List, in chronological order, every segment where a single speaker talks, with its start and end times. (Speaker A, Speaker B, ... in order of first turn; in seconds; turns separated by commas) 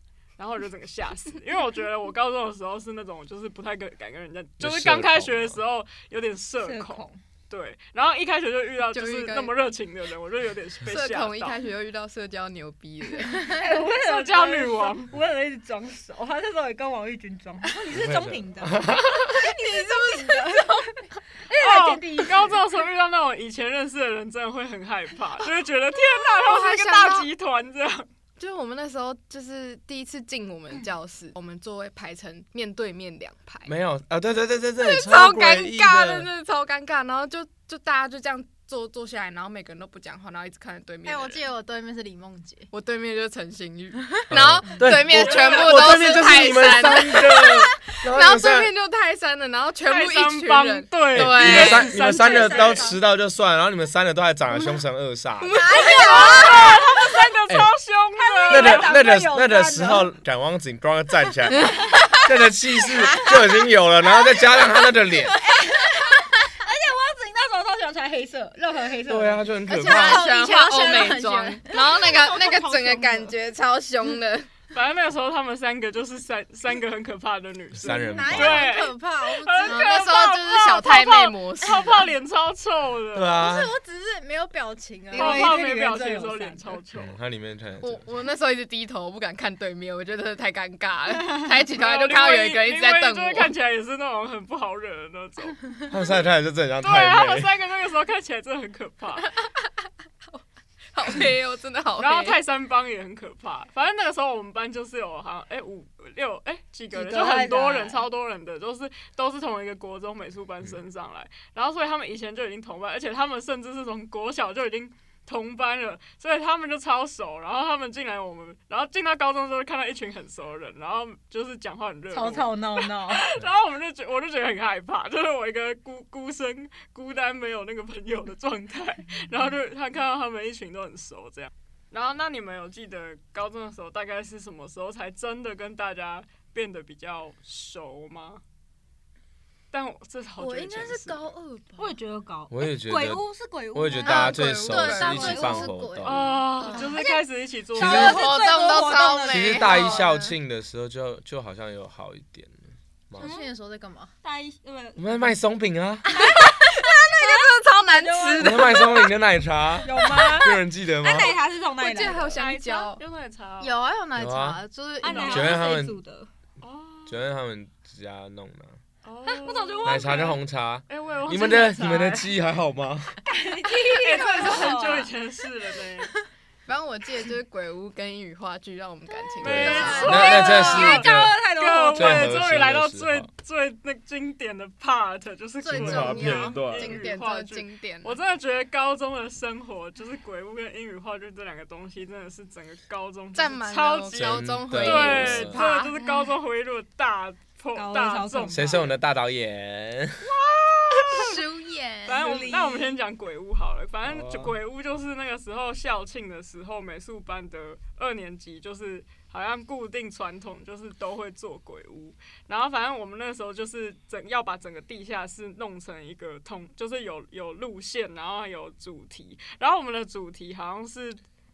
Speaker A: 0.4-11.6, Speaker B: 4.6-5.6, Speaker C: 6.6-7.2, Speaker D: 8.9-9.5, Speaker D: 10.8-13.6, Speaker C: 13.3-22.6, Speaker A: 13.9-15.1, Speaker B: 17.9-19.2, Speaker E: 20.0-20.8, Speaker A: 21.6-28.1, Speaker D: 26.3-27.3, Speaker D: 28.4-33.7, Speaker B: 33.6-36.3, Speaker D: 34.8-41.4, Speaker E: 41.0-42.7, Speaker D: 42.7-52.1, Speaker B: 44.3-48.7, Speaker A: 45.0-46.3, Speaker A: 49.8-52.9, Speaker B: 51.1-55.7, Speaker C: 52.2-52.7, Speaker E: 52.4-52.9, Speaker D: 55.4-57.2, Speaker C: 55.6-56.8, Speaker A: 55.9-59.0, Speaker C: 58.4-60.1, Speaker B: 58.5-65.4, Speaker C: 65.2-71.1, Speaker B: 69.1-70.2, Speaker D: 69.7-74.5, Speaker E: 69.7-71.6, Speaker C: 71.7-73.3, Speaker A: 74.7-83.4, Speaker B: 77.7-78.6, Speaker E: 77.9-79.9, Speaker C: 78.4-78.9, Speaker D: 79.7-82.1, Speaker B: 83.1-83.7, Speaker E: 83.4-85.6, Speaker C: 85.1-86.8, Speaker A: 85.1-87.1, Speaker B: 87.0-88.0, Speaker D: 87.8-93.5, Speaker A: 91.7-95.7, Speaker B: 95.9-97.5, Speaker A: 96.8-99.3, Speaker D: 100.9-102.4, Speaker A: 102.0-138.4, Speaker C: 106.9-108.0, Speaker C: 122.1-123.3, Speaker A: 139.7-141.3, Speaker E: 140.4-142.0, Speaker C: 141.8-145.7, Speaker B: 142.5-146.4, Speaker E: 144.1-147.1, Speaker D: 144.1-145.4, Speaker A: 146.0-148.2, Speaker C: 146.8-147.0, Speaker B: 147.8-148.2, Speaker D: 147.8-150.3, Speaker C: 147.8-149.9, Speaker B: 149.3-153.3, Speaker E: 153.2-154.1, Speaker C: 153.2-153.5, Speaker C: 154.2-155.3, Speaker B: 155.0-156.1, Speaker D: 156.2-159.1, Speaker C: 156.2-156.5, Speaker C: 157.2-159.0, Speaker B: 158.4-161.4, Speaker C: 159.8-162.5, Speaker D: 159.9-160.5, Speaker D: 161.8-163.0, Speaker A: 162.3-163.7, Speaker E: 163.6-165.6, Speaker B: 164.2-164.6, Speaker C: 165.0-166.3, Speaker A: 165.1-165.5, Speaker B: 165.3-166.0, Speaker A: 166.6-167.2, Speaker B: 167.1-168.8, Speaker A: 169.0-172.3, Speaker C: 169.3-170.3, Speaker B: 169.8-173.2, Speaker C: 173.2-175.1, Speaker A: 173.9-176.1, Speaker D: 176.7-180.4, Speaker C: 179.4-182.5, Speaker B: 179.4-181.4, Speaker A: 179.4-198.9, Speaker E: 179.5-180.5, Speaker B: 181.9-183.3, Speaker E: 185.6-186.6, Speaker B: 185.7-187.0, Speaker D: 185.9-188.2, Speaker D: 193.3-195.9, Speaker B: 194.1-195.6, Speaker C: 197.7-198.9, Speaker B: 198.5-200.3, Speaker A: 200.2-201.4, Speaker E: 201.1-202.2, Speaker C: 202.1-203.0, Speaker A: 202.1-221.2, Speaker B: 204.0-204.5